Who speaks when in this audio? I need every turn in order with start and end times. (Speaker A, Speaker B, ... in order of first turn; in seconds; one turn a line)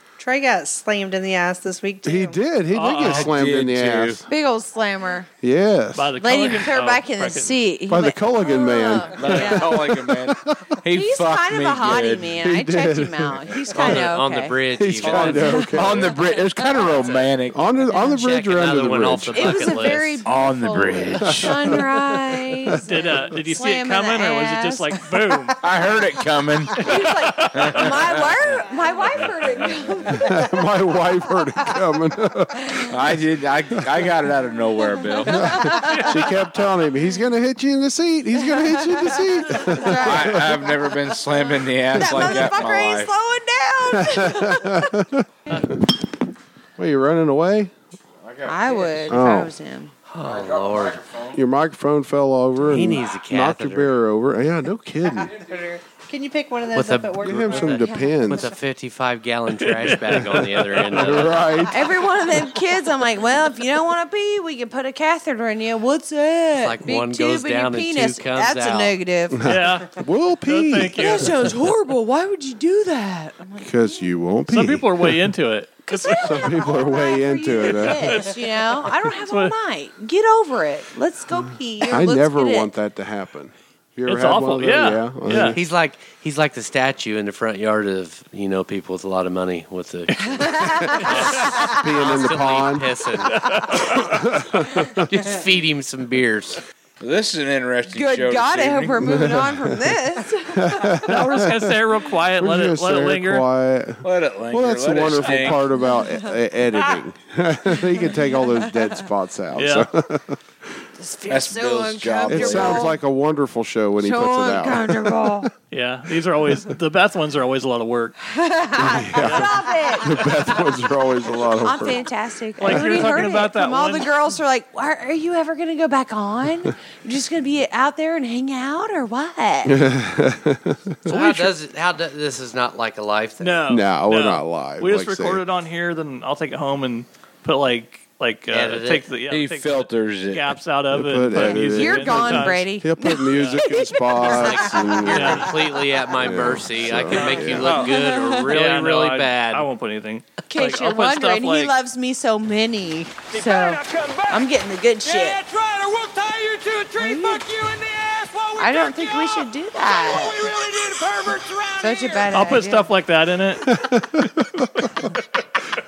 Speaker A: 0.2-2.4
Speaker B: 2.0-4.2
Speaker C: 2.8-3.3
Speaker D: 3.0-4.2
Speaker E: 4.2-5.3
Speaker B: 5.4-6.2
Speaker C: 6.0-7.5
Speaker E: 6.2-9.9
Speaker B: 7.9-10.8
Speaker D: 9.1-12.4
Speaker E: 10.9-16.2
Speaker B: 12.4-13.6
Speaker F: 13.7-15.7
Speaker B: 14.7-16.0
Speaker D: 15.0-17.6
Speaker B: 17.5-19.7
Speaker E: 17.9-18.2
Speaker F: 18.1-20.2
Speaker E: 19.3-25.0
Speaker D: 20.2-21.8
Speaker B: 21.2-21.9
Speaker C: 22.9-25.6
Speaker D: 25.6-26.8
Speaker E: 26.7-30.7
Speaker C: 27.4-27.8
Speaker D: 27.6-28.2
Speaker B: 30.2-32.7
Speaker D: 32.9-35.5
Speaker E: 35.1-36.4
Speaker B: 35.3-40.6
Speaker E: 38.4-40.8
Speaker D: 40.0-43.1
Speaker E: 41.9-44.9
Speaker B: 44.0-45.6
Speaker B: 46.8-47.7
Speaker D: 48.2-49.2
Speaker E: 48.5-49.9
Speaker B: 49.1-49.5
Speaker F: 50.1-51.0
Speaker D: 50.2-51.4
Speaker B: 51.3-55.3
Speaker F: 52.6-54.0
Speaker D: 55.3-55.6
Speaker A: 55.5-57.8
Speaker F: 56.7-57.7
Speaker B: 57.2-58.5
Speaker E: 57.6-58.4
Speaker F: 58.2-61.5
Speaker C: 59.6-60.0
Speaker B: 60.2-61.9
Speaker E: 61.7-69.5
Speaker F: 66.6-69.0
Speaker B: 69.3-71.5
Speaker C: 69.4-69.9
Speaker C: 70.5-71.3
Speaker E: 71.0-74.1
Speaker B: 73.6-75.2
Speaker C: 74.5-76.5
Speaker E: 75.9-82.7
Speaker B: 76.2-78.3
Speaker C: 77.8-78.4
Speaker C: 79.0-79.6
Speaker B: 81.8-85.6
Speaker C: 84.1-85.6
Speaker F: 85.5-93.6
Speaker E: 90.2-91.9
Speaker B: 91.1-93.0
Speaker C: 93.3-93.8
Speaker B: 93.8-95.0
Speaker F: 95.0-96.6
Speaker D: 97.0-99.2
Speaker E: 97.9-101.1
Speaker B: 99.0-99.7
Speaker B: 100.5-101.8
Speaker C: 101.1-103.5
Speaker B: 102.4-110.4
Speaker D: 104.0-105.7
Speaker E: 105.8-106.9
Speaker E: 107.7-109.0
Speaker C: 109.5-109.9
Speaker E: 111.0-113.0
Speaker D: 111.3-112.9
Speaker B: 112.3-115.5
Speaker E: 114.0-115.5
Speaker C: 115.7-118.2
Speaker E: 118.3-129.8
Speaker B: 118.8-122.0
Speaker C: 122.6-124.1
Speaker B: 129.7-131.4
Speaker F: 131.1-133.7
Speaker C: 133.4-142.7
Speaker B: 133.7-135.4
Speaker F: 138.5-139.1
Speaker D: 139.3-140.6
Speaker B: 140.9-145.6
Speaker E: 141.4-145.8
Speaker C: 143.3-143.6
Speaker F: 144.3-149.7
Speaker C: 145.1-145.5
Speaker B: 146.1-147.7
Speaker C: 147.2-148.0
Speaker E: 147.3-148.6
Speaker C: 148.5-151.7
Speaker E: 150.5-155.4
Speaker G: 153.3-162.4
Speaker E: 157.0-157.5
Speaker E: 158.6-160.5
Speaker E: 161.8-162.9
Speaker C: 162.3-165.2
Speaker B: 163.7-164.9